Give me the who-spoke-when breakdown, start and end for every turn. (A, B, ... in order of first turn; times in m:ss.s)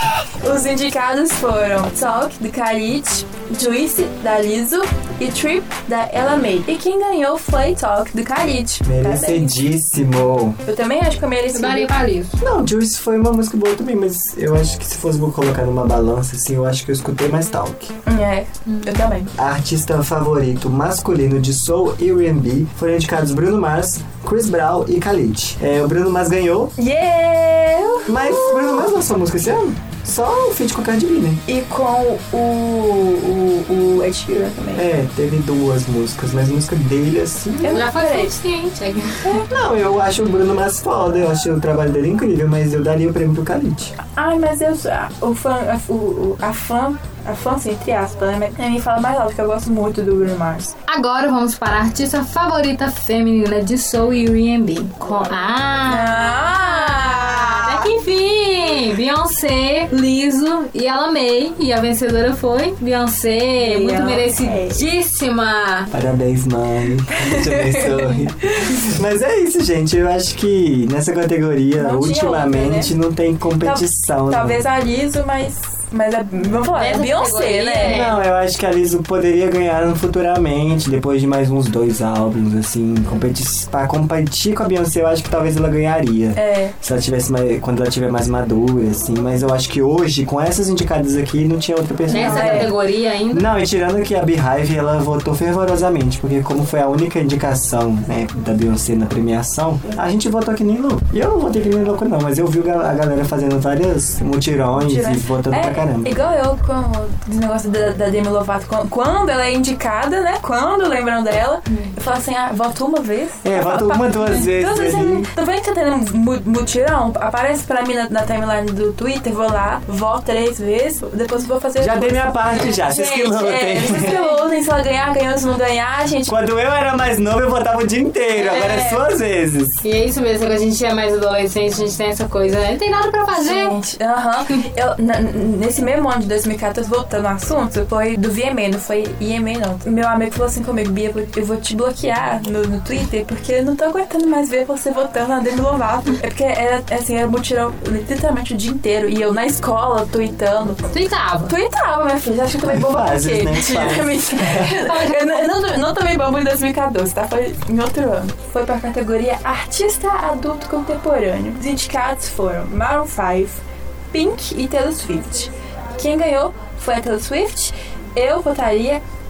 0:00.4-0:09.5 A
0:08.8-0:10.6 B
0:10.7-0:11.9 A
0:11.5-0:12.4 C
0:12.4-0:17.9 B
0:18.1-0:19.3 A
0:18.7-0:19.0 C
0:19.4-0:26.7 B
0:26.8-0:28.8 A
0:28.1-0:31.4 B
0:31.5-0:34.9 A
0:34.8-0:37.8 B
0:37.6-0:38.3 A
0:37.7-0:39.4 C
0:39.3-0:44.0 B
0:44.1-0:50.7 A
0:50.9-1:05.9 C
0:55.9-0:57.9 A
1:03.6-1:04.8 A
1:05.9-1:14.6 B
1:07.2-1:08.8 A
1:11.8-1:12.9 A
1:13.6-1:18.1 A
1:16.7-1:18.2 C
1:17.8-1:32.7 B
1:26.4-1:26.7 A
1:32.1-1:32.7 A
1:32.1-1:33.5 C
1:33.3-1:46.2 B
1:44.8-2:06.3 A
1:51.7-1:51.9 C
1:53.4-1:55.3 B
2:01.8-2:04.2 B
2:03.9-2:04.4 C
2:06.3-2:09.8 B
2:08.4-2:09.0 A
2:09.8-2:13.8 C
2:13.4-2:30.9 A
2:30.9-2:31.5 C
2:31.5-2:43.6 A
2:32.6-2:34.8 B
2:34.8-2:35.5 C
2:44.1-2:49.0 A